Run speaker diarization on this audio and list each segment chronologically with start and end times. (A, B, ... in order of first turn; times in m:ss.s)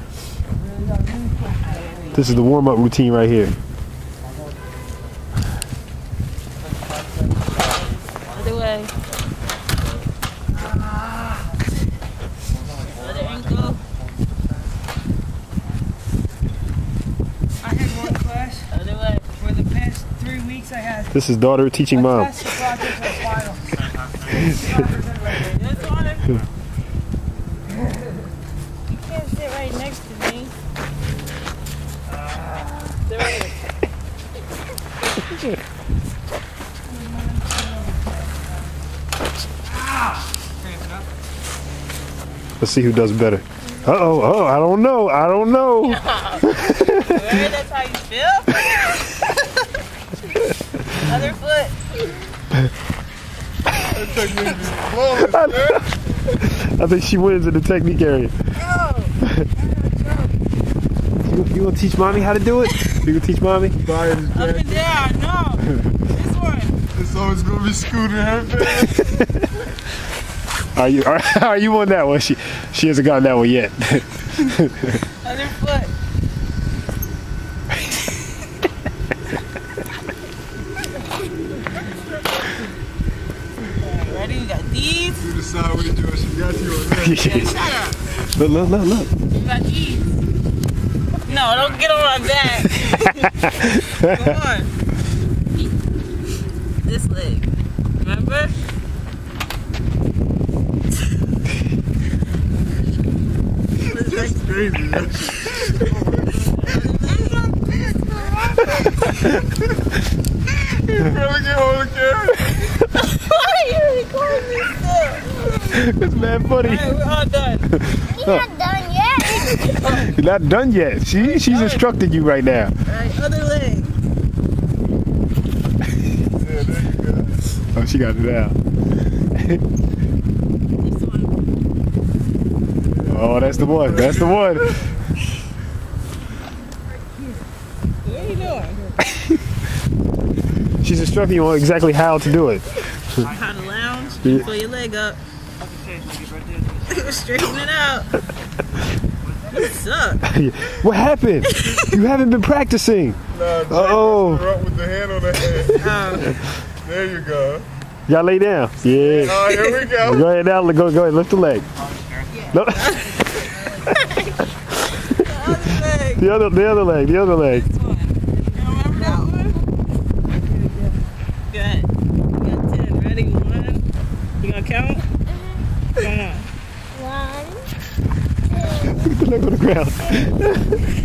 0:00.9-0:01.5 A
0:01.7-0:02.4 B
0:02.1-0:03.5 C
0:08.3-0:08.9 B
0:12.9-0:13.8 B
0:17.6-0:18.7 A
0:18.7-0:19.5 B
0:19.4-0:21.1 A
0:21.1-0:22.7 C
0:22.1-0:25.2 A
0:24.3-0:24.7 C
0:25.3-0:26.5 B
0:28.9-0:30.5 B
0:33.0-0:33.7 B
0:37.2-0:38.1 A
0:42.6-0:47.2 C
0:45.8-0:49.3 B
0:50.8-0:51.8 B
0:53.8-0:55.9 D
0:55.2-0:58.3 C
0:58.6-0:59.2 B
1:01.2-1:03.8 C
1:03.8-1:04.9 D
1:04.3-1:06.7 B
1:06.9-1:09.1 D
1:10.7-1:15.0 C
1:15.0-1:15.9 B
1:23.7-1:25.2 B
1:25.2-1:27.3 D
1:26.9-1:27.7 C
1:27.2-1:28.0 B
1:28.2-1:29.1 C
1:29.3-1:30.2 B
1:31.2-1:34.7 B
1:32.9-1:33.7 C
1:36.8-1:38.6 B
1:43.8-1:45.7 B
1:43.9-1:46.7 D
1:46.5-1:49.2 B
1:50.5-1:52.8 D
1:52.9-1:55.9 B
1:55.7-1:57.0 C
1:56.4-1:57.7 B
1:57.7-1:58.4 C
1:58.0-1:59.8 E
1:59.3-2:00.1 B
1:59.9-2:02.7 C
2:01.2-2:01.8 B
2:02.8-2:04.0 B
2:06.2-2:07.5 D
2:07.7-2:08.6 C
2:09.2-2:09.6 C
2:10.8-2:11.4 B
2:12.9-2:14.9 D
2:13.1-2:14.8 C
2:18.0-2:19.0 B
2:20.8-2:22.7 C
2:23.2-2:25.2 B
2:24.2-2:24.5 C
2:25.6-2:26.9 A
2:26.9-2:28.1 B
2:29.5-2:30.2 B
2:30.2-2:34.4 C
2:31.5-2:31.9 B
2:33.3-2:37.7 D
2:35.8-2:36.4 B
2:38.1-2:41.7 C
2:38.8-2:40.3 D
2:42.0-2:42.2 A
2:42.4-2:44.4 B
2:42.5-2:43.2 C
2:45.0-2:46.2 B
2:46.2-2:47.6 C
2:47.4-2:49.6 B
2:50.5-2:50.9 A
2:51.5-2:53.8 B
2:54.4-2:55.1 B
2:55.3-2:55.7 E
2:56.0-2:56.5 B
2:56.9-2:57.7 E
2:58.5-2:59.1 E
2:58.9-3:00.8 C